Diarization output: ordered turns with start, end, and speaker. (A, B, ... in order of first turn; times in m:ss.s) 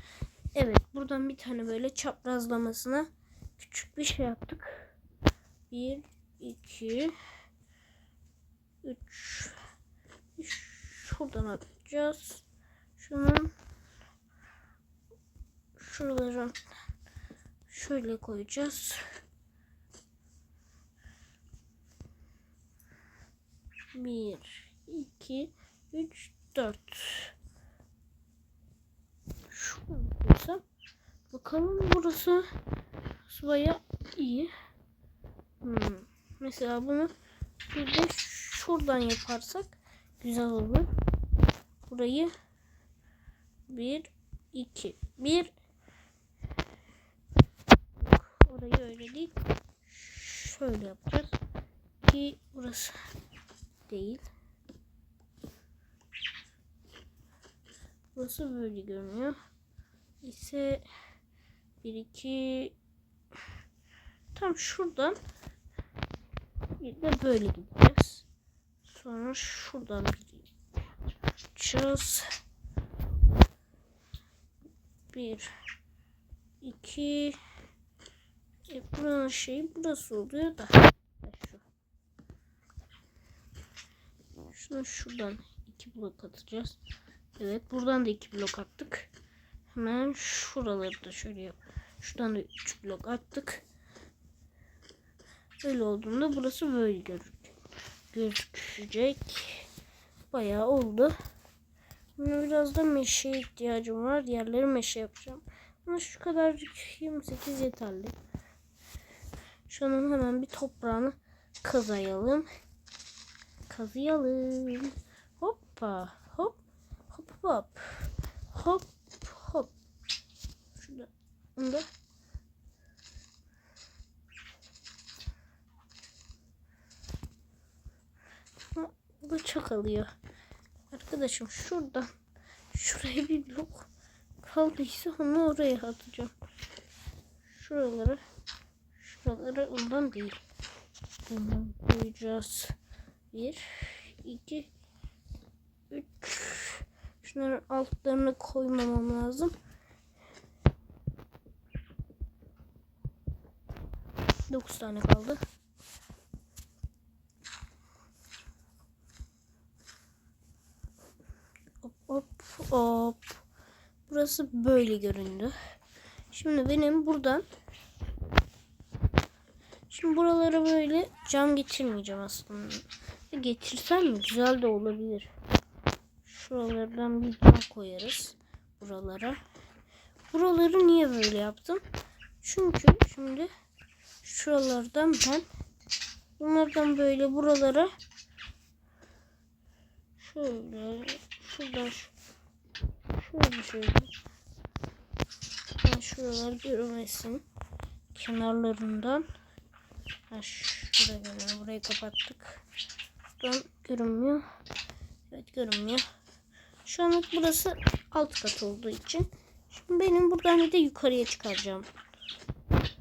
0:00.5-0:04.9 A
0:05.7-0:07.1 A
0:08.8-0:09.6 A
0:10.4-0:12.4 A
0:13.0-0:13.5 A
0:15.8-0:16.7 A
0:17.7-0:19.1 A
0:23.9-0:27.3 A
0:29.5-0:30.6 A
0:31.3-0:32.5 A
0:33.3-0:34.5 A
0:35.6-0:37.1 A
0:37.7-0:40.9 A
0:41.9-0:42.3 A
0:43.7-0:45.5 A
0:48.0-0:51.4 A
0:52.0-0:53.0 A
0:53.9-0:54.3 A
0:58.2-0:59.4 A
1:00.2-1:00.8 A
1:01.8-1:02.8 A
1:04.3-1:05.2 A
1:06.8-1:08.3 A
1:08.8-1:10.5 A
1:11.6-1:12.3 A
1:15.1-1:15.5 A
1:16.6-1:17.4 A
1:18.7-1:21.6 A
1:24.4-1:26.8 A
1:27.4-1:29.1 A
1:29.7-1:33.6 A
1:35.6-1:37.5 A
1:38.1-1:39.7 A
1:40.3-1:41.2 A
1:42.2-1:48.2 A
1:49.7-1:52.5 A
1:53.7-1:59.7 A
2:00.8-2:01.9 A
2:08.7-2:10.1 A
2:10.9-2:12.1 A
2:12.7-2:13.9 A
2:14.4-2:16.3 A
2:17.4-2:18.2 A
2:19.0-2:20.4 A
2:21.3-2:22.8 A
2:23.3-2:24.7 A
2:25.9-2:29.6 A
2:34.5-2:35.4 A
2:41.8-2:43.4 A
2:44.1-2:45.5 A
2:46.3-2:47.5 A
2:49.9-2:55.3 A
2:56.2-2:59.4 A
3:00.3-3:01.8 A
3:02.4-3:03.5 A
3:04.2-3:05.5 A
3:06.4-3:07.9 A
3:10.2-3:12.1 A
3:13.1-3:14.1 A
3:15.8-3:17.4 A
3:18.1-3:19.2 A
3:20.3-3:22.6 A
3:23.4-3:24.4 A
3:25.3-3:26.0 A
3:26.8-3:31.9 A